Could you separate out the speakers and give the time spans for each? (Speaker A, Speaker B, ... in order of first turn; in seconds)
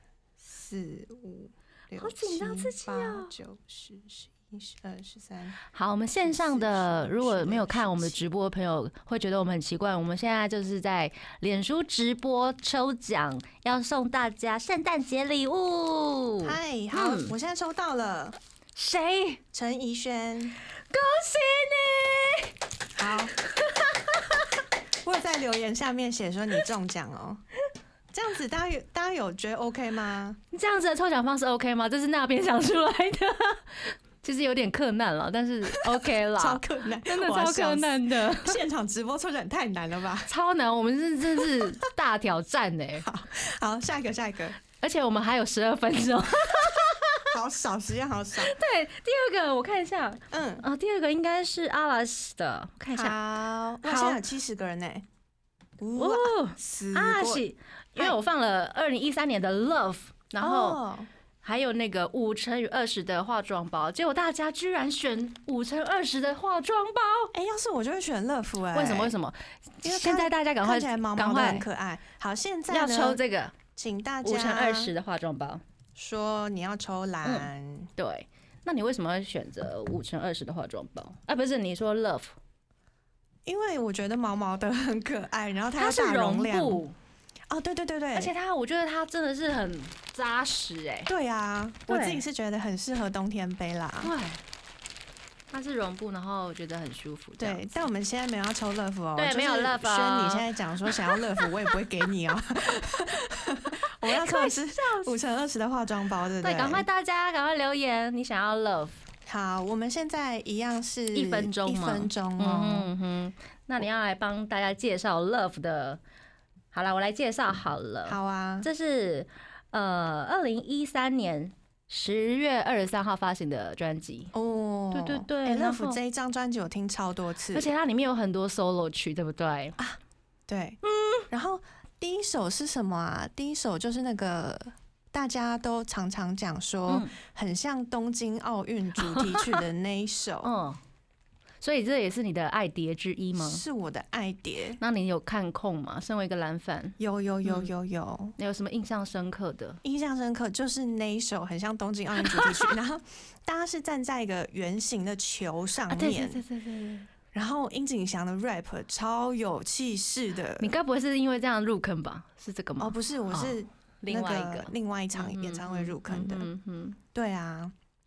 Speaker A: 0.4-5.6, 6.2-8.3, 16.4-18.4, 19.5-20.6, 23.0-23.3, 25.0-27.4, 28.1-30.4, 35.7-40.3, 41.4-41.8, 43.0-44.6, 47.3-48.5, 50.3-50.6, 52.9-55.1, 55.8-57.4, 60.4-61.1, 67.3-69.2, 69.8-73.2, 73.8-74.9, 76.0-77.9, 83.5-86.8, 87.5-88.3, 91.1-94.1, 97.4-106.8, 109.3-112.9, 118.1-118.7, 124.3-127.7, 129.8-140.5, 143.3-144.8, 147.0-148.3, 149.8-156.4, 157.3-160.7, 162.8-166.5, 167.1-167.7
Speaker B: 2.0-3.3, 5.7-17.3, 18.8-19.4, 20.8-22.6, 23.4-24.4, 30.5-38.6, 40.3-43.1, 44.8-47.3, 48.4-53.2, 53.8-54.2, 56.0-60.8, 61.4-67.3, 68.7-71.7, 72.7-73.5, 74.2-75.6, 77.2-82.3, 85.8-87.0, 88.1-91.1, 91.9-92.2, 94.0-94.4, 95.5-97.9, 99.2-101.5, 104.0-105.1, 106.4-109.0, 111.1-116.0, 116.7-124.3, 124.9-126.0, 127.5-129.8, 130.8-131.3, 136.9-137.1, 139.0-139.6, 140.4-140.8, 141.6-143.6, 144.8-147.7, 148.4-149.8, 152.2-152.7, 155.9-157.1, 160.6-167.0